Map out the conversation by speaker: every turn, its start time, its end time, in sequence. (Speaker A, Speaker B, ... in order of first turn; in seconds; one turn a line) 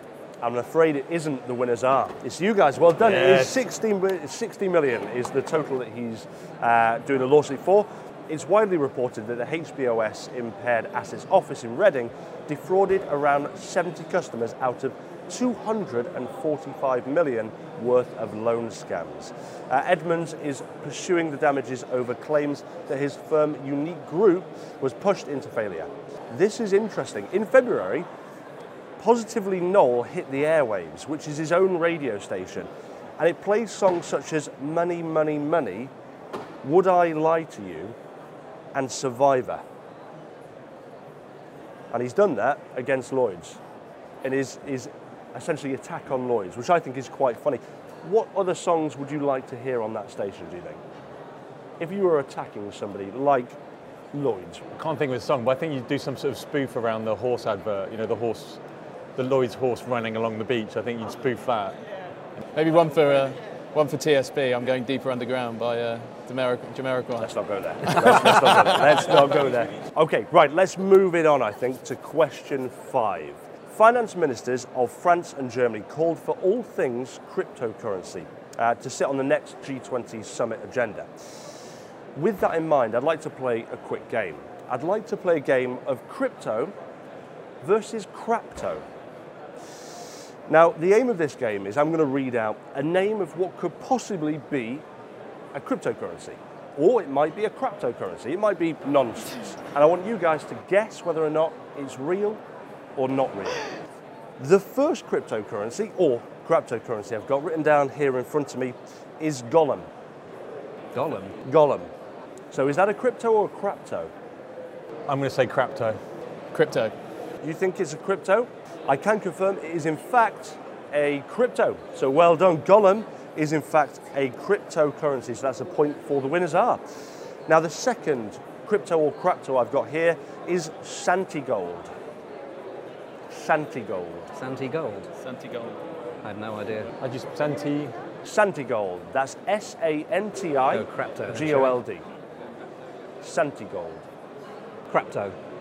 Speaker A: 0.4-28.1
Speaker B: 3.0-3.5
Speaker A: 29.0-35.9
Speaker A: 36.6-37.9
Speaker A: 38.7-39.6
Speaker A: 41.9-43.6
Speaker A: 44.2-50.8
Speaker A: 51.8-53.6
Speaker A: 54.1-54.6
Speaker B: 54.7-58.6
Speaker B: 59.2-61.7
Speaker C: 62.5-67.3
Speaker A: 67.2-81.1
Speaker A: 82.1-86.7
Speaker A: 87.6-88.8
Speaker A: 90.5-94.8
Speaker A: 95.5-102.4
Speaker A: 103.0-103.7
Speaker A: 104.4-109.9
Speaker D: 110.9-111.3
Speaker A: 111.4-111.9
Speaker A: 112.5-114.1
Speaker B: 115.1-116.0
Speaker C: 116.5-116.9
Speaker A: 117.4-126.8
Speaker A: 127.5-131.9
Speaker A: 133.3-134.3
Speaker D: 134.3-135.1
Speaker C: 135.2-135.8
Speaker D: 136.2-136.9
Speaker B: 137.0-137.9
Speaker A: 138.2-142.0
Speaker D: 140.7-141.8
Speaker A: 143.2-144.0
Speaker D: 144.9-145.3